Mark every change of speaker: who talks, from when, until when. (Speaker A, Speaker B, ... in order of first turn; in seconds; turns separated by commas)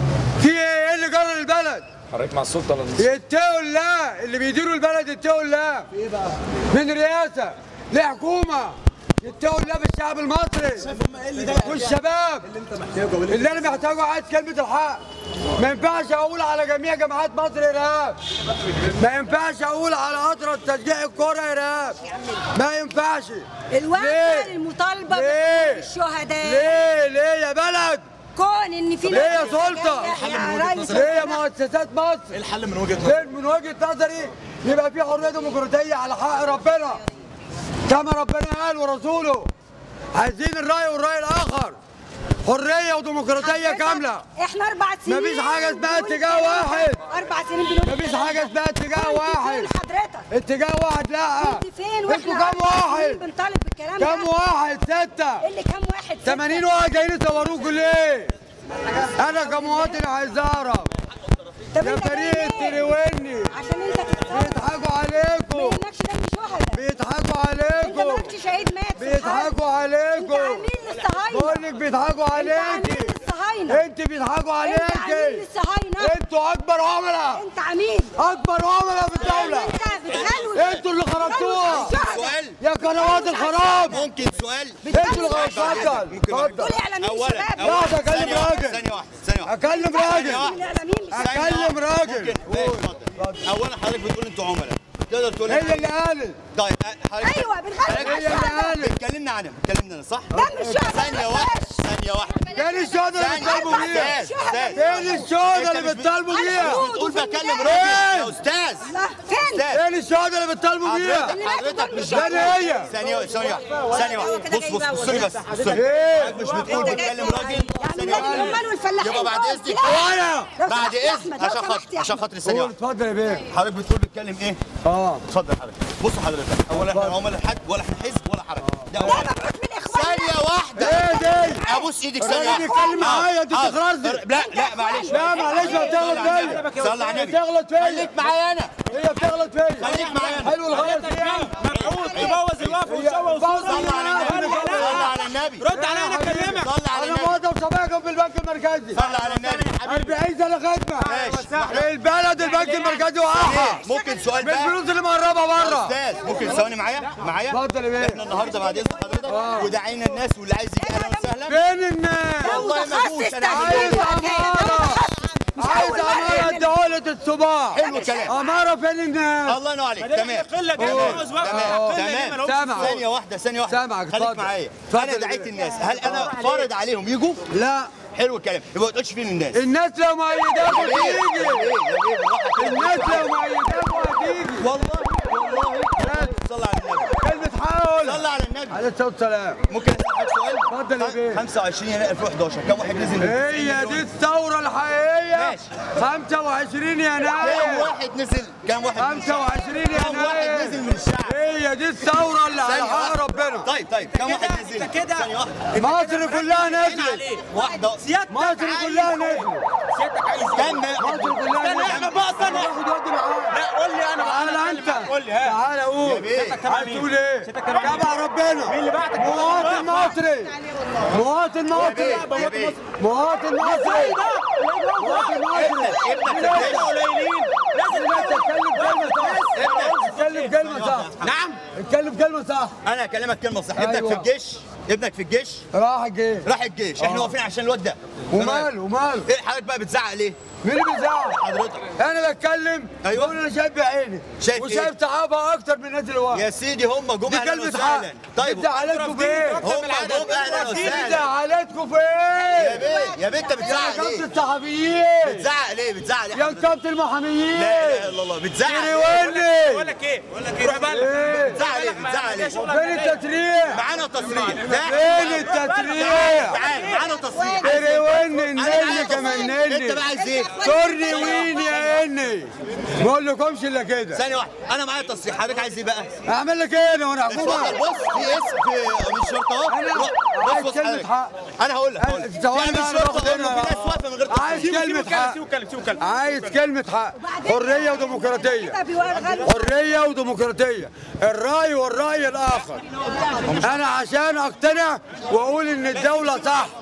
Speaker A: 0.4-1.9, Speaker B: 2.1-3.0, Speaker A: 2.9-5.9, Speaker A: 6.6-12.5, Speaker B: 10.8-11.9, Speaker B: 12.5-13.6, Speaker A: 13.2-15.0, Speaker A: 15.6-18.2, Speaker A: 18.9-22.0, Speaker C: 22.1-22.4, Speaker A: 22.5-24.5, Speaker C: 23.7-26.8, Speaker A: 25.0-25.9, Speaker A: 26.4-28.0, Speaker C: 28.3-31.4, Speaker A: 29.1-30.1, Speaker D: 29.1-31.2, Speaker A: 30.8-32.3, Speaker B: 32.4-33.1, Speaker A: 33.0-37.0, Speaker A: 37.9-39.5, Speaker A: 40.1-41.8, Speaker A: 42.4-44.2, Speaker C: 43.4-50.3, Speaker A: 45.1-47.0, Speaker A: 47.8-49.7, Speaker A: 50.3-53.2, Speaker C: 51.4-54.3, Speaker A: 54.0-55.4, Speaker C: 55.4-56.7, Speaker A: 56.2-58.3, Speaker A: 59.1-60.9, Speaker C: 61.7-62.8, Speaker A: 61.8-63.5, Speaker C: 63.5-66.8, Speaker A: 64.2-65.8, Speaker A: 66.7-68.3, Speaker C: 67.8-69.5, Speaker A: 69.0-70.6, Speaker C: 70.2-71.6, Speaker A: 71.3-73.1, Speaker C: 72.3-73.8, Speaker A: 73.7-75.4, Speaker C: 74.6-76.2, Speaker A: 76.0-77.4, Speaker C: 77.3-78.2, Speaker A: 78.2-79.7, Speaker C: 79.1-84.0, Speaker D: 79.2-80.8, Speaker A: 80.4-82.0, Speaker D: 81.7-82.6, Speaker A: 82.6-84.0, Speaker D: 83.8-90.6, Speaker C: 84.8-86.0, Speaker A: 84.9-86.7, Speaker C: 86.5-88.4, Speaker A: 87.6-88.8, Speaker A: 89.4-90.5, Speaker C: 89.6-91.3, Speaker A: 91.1-93.4, Speaker D: 91.1-96.0, Speaker A: 95.5-96.4, Speaker D: 96.5-102.5, Speaker C: 97.2-98.8, Speaker A: 97.9-99.0, Speaker A: 100.3-100.8, Speaker C: 100.3-105.3, Speaker A: 102.5-104.2, Speaker D: 103.1-108.9, Speaker A: 104.7-106.8, Speaker C: 106.3-108.0, Speaker A: 107.6-108.3, Speaker C: 108.8-109.7, Speaker D: 109.5-109.8, Speaker A: 109.7-111.3, Speaker D: 110.8-120.1, Speaker C: 111.2-112.9, Speaker A: 112.0-112.9, Speaker B: 113.2-113.8, Speaker C: 113.7-115.3, Speaker B: 115.2-117.7, Speaker A: 115.7-116.4, Speaker C: 116.6-122.2, Speaker A: 118.0-118.6, Speaker A: 119.8-120.5, Speaker D: 120.7-122.7, Speaker A: 122.4-123.5, Speaker D: 123.5-124.6, Speaker A: 124.8-125.2, Speaker D: 125.2-129.3, Speaker A: 126.8-127.1, Speaker A: 128.6-129.2, Speaker C: 129.0-133.3, Speaker D: 129.9-138.8, Speaker A: 130.8-131.6, Speaker A: 132.2-134.2, Speaker C: 134.3-135.8, Speaker A: 135.1-136.6, Speaker B: 135.6-137.2, Speaker A: 137.1-138.1, Speaker A: 138.9-141.5, Speaker D: 139.8-140.6, Speaker B: 139.8-146.7, Speaker D: 141.9-142.8, Speaker A: 142.8-145.1, Speaker D: 143.5-145.7, Speaker A: 145.7-149.0, Speaker D: 146.3-147.4, Speaker D: 148.9-149.7, Speaker B: 148.9-150.2, Speaker A: 149.8-151.1, Speaker B: 151.0-153.1, Speaker D: 151.0-151.9, Speaker A: 151.7-153.8, Speaker D: 153.4-154.8, Speaker C: 153.8-154.2, Speaker A: 154.4-156.0, Speaker D: 155.5-161.6, Speaker A: 157.5-158.2, Speaker A: 159.2-159.7, Speaker C: 160.8-161.3, Speaker A: 161.5-162.7, Speaker C: 162.4-166.8, Speaker D: 162.4-164.2, Speaker A: 163.4-165.0, Speaker A: 165.6-169.6, Speaker D: 167.7-168.4, Speaker C: 167.8-168.6, Speaker D: 169.4-177.4, Speaker B: 170.0-173.0, Speaker A: 170.8-173.0, Speaker A: 173.7-175.5, Speaker B: 175.8-176.7, Speaker A: 177.5-177.9, Speaker D: 178.1-179.6, Speaker A: 179.5-181.7, Speaker D: 180.6-183.3, Speaker A: 182.6-184.7, Speaker D: 184.6-187.2, Speaker A: 186.0-186.3, Speaker A: 187.2-189.6, Speaker D: 188.0-188.8, Speaker D: 189.7-194.0, Speaker A: 190.7-191.4, Speaker A: 193.2-197.9, Speaker D: 195.3-195.7, Speaker D: 197.4-201.4, Speaker A: 198.9-203.7, Speaker D: 202.6-205.7, Speaker B: 204.1-210.8, Speaker A: 205.8-207.2, Speaker D: 207.5-208.0, Speaker A: 208.3-209.6, Speaker D: 210.5-212.6, Speaker A: 211.0-213.6, Speaker B: 211.5-212.7, Speaker B: 213.5-215.6, Speaker A: 214.2-220.6, Speaker D: 216.0-216.6, Speaker B: 216.2-220.9, Speaker A: 221.1-224.2, Speaker D: 221.7-222.8, Speaker B: 221.8-222.8, Speaker B: 223.6-231.6, Speaker A: 225.0-226.9, Speaker D: 225.5-226.9, Speaker A: 227.9-231.1, Speaker D: 229.5-230.0, Speaker D: 230.6-231.4, Speaker A: 231.7-232.7, Speaker D: 232.8-235.6, Speaker A: 233.8-234.3, Speaker A: 235.7-236.5, Speaker D: 236.4-240.4, Speaker A: 237.0-237.3, Speaker A: 238.3-239.3, Speaker A: 240.6-241.4, Speaker D: 241.3-241.9, Speaker A: 242.0-246.4, Speaker D: 243.0-243.3, Speaker D: 244.4-244.9, Speaker D: 246.3-248.7, Speaker A: 247.3-249.7, Speaker B: 248.6-251.2, Speaker D: 249.6-251.3, Speaker A: 250.4-252.9, Speaker D: 252.5-254.3, Speaker C: 252.8-253.7, Speaker A: 253.6-255.4, Speaker D: 255.2-256.7, Speaker A: 256.3-258.1, Speaker D: 257.5-259.0, Speaker A: 258.6-259.9, Speaker B: 258.9-263.2, Speaker A: 260.6-261.6, Speaker D: 261.4-262.6, Speaker A: 262.6-263.8, Speaker D: 263.7-271.7, Speaker A: 264.7-266.6, Speaker B: 264.8-267.1, Speaker C: 267.2-267.9, Speaker A: 267.6-270.0, Speaker C: 268.8-272.0, Speaker A: 270.5-274.2, Speaker D: 274.1-276.1, Speaker A: 276.2-277.8, Speaker D: 277.2-284.8, Speaker C: 277.8-278.2, Speaker A: 279.7-281.3, Speaker A: 282.0-285.4, Speaker B: 284.5-286.6, Speaker A: 286.0-288.8, Speaker C: 287.1-289.7, Speaker A: 289.4-292.8, Speaker A: 293.5-296.7